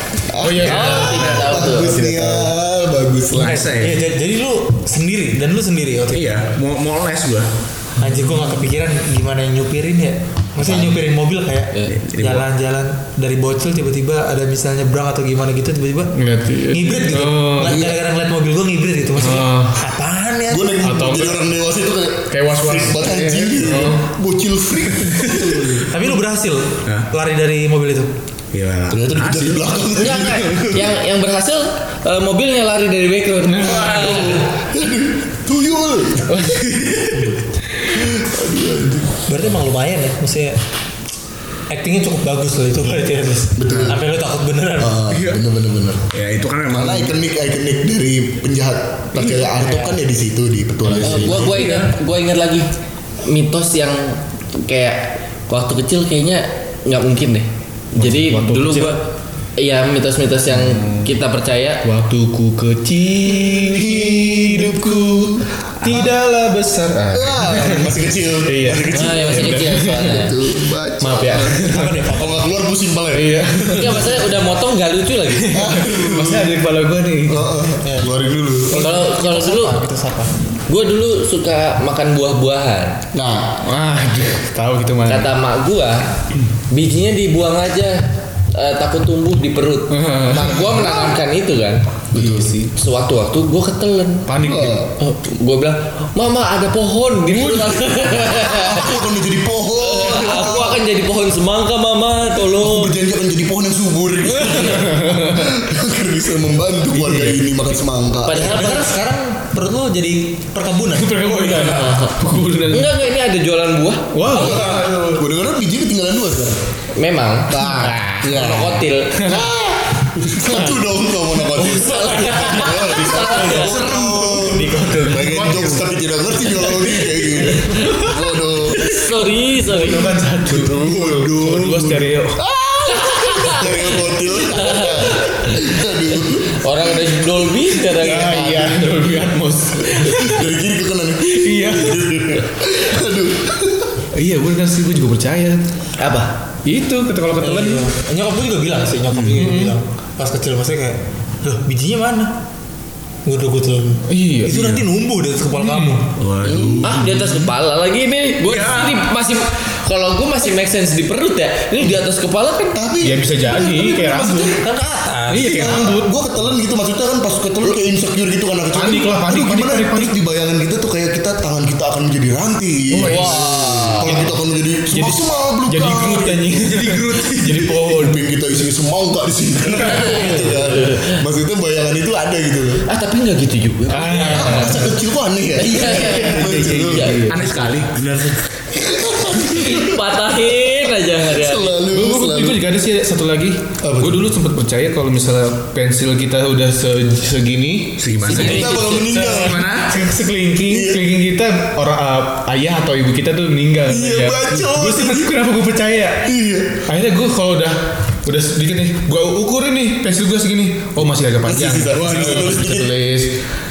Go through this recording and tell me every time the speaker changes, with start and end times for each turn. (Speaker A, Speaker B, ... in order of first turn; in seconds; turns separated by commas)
Speaker A: 0.3-3.7, Speaker B: 0.4-2.5, Speaker C: 0.6-1.9, Speaker D: 3.3-4.0, Speaker E: 3.3-6.4, Speaker D: 6.1-7.5, Speaker E: 8.0-16.1, Speaker B: 8.0-8.6, Speaker D: 11.9-12.4, Speaker B: 16.1-17.9, Speaker E: 16.7-20.8, Speaker A: 17.6-18.0, Speaker B: 19.2-19.9, Speaker A: 20.5-25.9, Speaker B: 20.8-21.4, Speaker B: 22.3-24.0, Speaker B: 25.2-25.9, Speaker E: 25.9-28.1, Speaker D: 28.5-29.8, Speaker A: 28.9-30.9, Speaker C: 29.9-34.5, Speaker B: 33.5-34.1, Speaker A: 33.9-39.2, Speaker B: 36.3-36.9, Speaker D: 36.8-37.4, Speaker E: 39.3-40.6, Speaker E: 41.7-45.0, Speaker A: 43.6-44.0, Speaker A: 44.8-46.0, Speaker D: 45.1-45.4, Speaker D: 46.1-47.1, Speaker A: 46.7-51.6, Speaker E: 49.6-50.0, Speaker B: 50.8-51.6, Speaker C: 51.0-52.7, Speaker D: 51.3-51.9, Speaker C: 53.2-59.0, Speaker B: 58.0-59.0, Speaker C: 59.6-61.8, Speaker B: 60.5-61.1, Speaker B: 61.8-70.2, Speaker A: 63.3-65.5, Speaker A: 67.1-74.2, Speaker C: 68.9-70.3, Speaker B: 71.0-72.0, Speaker E: 71.6-72.5, Speaker B: 73.1-74.0, Speaker C: 73.7-75.6, Speaker B: 75.3-77.5, Speaker A: 75.5-76.5, Speaker A: 77.3-78.9, Speaker E: 77.8-80.3, Speaker C: 78.8-79.8, Speaker C: 80.7-83.0, Speaker A: 83.1-83.6, Speaker B: 83.6-85.3, Speaker C: 85.1-86.1, Speaker C: 86.7-91.8, Speaker B: 89.9-91.0, Speaker A: 92.1-92.6, Speaker B: 92.2-92.7, Speaker C: 92.7-94.3, Speaker B: 94.3-94.8, Speaker A: 94.4-94.9, Speaker C: 95.0-99.1, Speaker B: 97.3-97.8, Speaker A: 98.3-100.8, Speaker C: 99.8-102.9, Speaker A: 102.6-108.8, Speaker C: 104.2-105.1, Speaker B: 104.9-105.5, Speaker B: 106.9-107.5, Speaker C: 108.2-108.8, Speaker E: 108.3-112.1, Speaker B: 110.9-112.9, Speaker C: 112.7-114.7, Speaker B: 114.1-115.2, Speaker A: 114.3-116.6, Speaker C: 116.9-117.5, Speaker A: 117.5-129.1, Speaker B: 117.7-118.5, Speaker C: 118.2-119.3, Speaker B: 119.2-119.5, Speaker B: 120.5-120.8, Speaker B: 121.5-122.4, Speaker C: 121.6-123.9, Speaker D: 123.4-124.4, Speaker B: 123.4-125.8, Speaker C: 126.7-128.1, Speaker B: 127.7-128.2, Speaker C: 128.7-130.2, Speaker B: 129.7-132.4, Speaker A: 130.5-137.3, Speaker C: 132.9-138.8, Speaker B: 137.9-140.5, Speaker A: 139.8-143.9, Speaker B: 141.2-142.3, Speaker B: 144.1-145.6, Speaker C: 146.0-146.3, Speaker B: 146.6-147.9, Speaker E: 147.4-152.3, Speaker B: 149.1-149.8, Speaker E: 153.2-156.0, Speaker B: 154.1-154.8, Speaker B: 155.5-156.0, Speaker D: 156.1-157.3, Speaker A: 156.4-157.1, Speaker C: 156.8-162.8, Speaker D: 158.5-159.0, Speaker A: 162.7-164.6, Speaker B: 163.0-164.6, Speaker E: 164.5-165.8, Speaker B: 165.3-166.1, Speaker A: 165.4-182.9, Speaker B: 168.7-170.1, Speaker B: 172.9-173.4, Speaker C: 173.0-174.3, Speaker B: 174.0-174.3, Speaker B: 174.9-178.2, Speaker C: 179.9-181.2, Speaker C: 182.9-184.9, Speaker B: 183.9-184.9, Speaker E: 184.1-184.8, Speaker A: 184.3-187.2, Speaker C: 185.6-187.5, Speaker B: 186.0-187.4, Speaker D: 187.3-188.4, Speaker A: 188.7-192.6, Speaker C: 189.4-191.8, Speaker B: 191.9-206.3, Speaker A: 193.8-194.3, Speaker D: 198.0-199.9, Speaker C: 198.2-199.3, Speaker A: 198.3-199.7, Speaker A: 200.7-201.0, Speaker A: 203.9-205.3, Speaker A: 206.2-206.8, Speaker B: 206.9-213.3, Speaker A: 211.4-212.9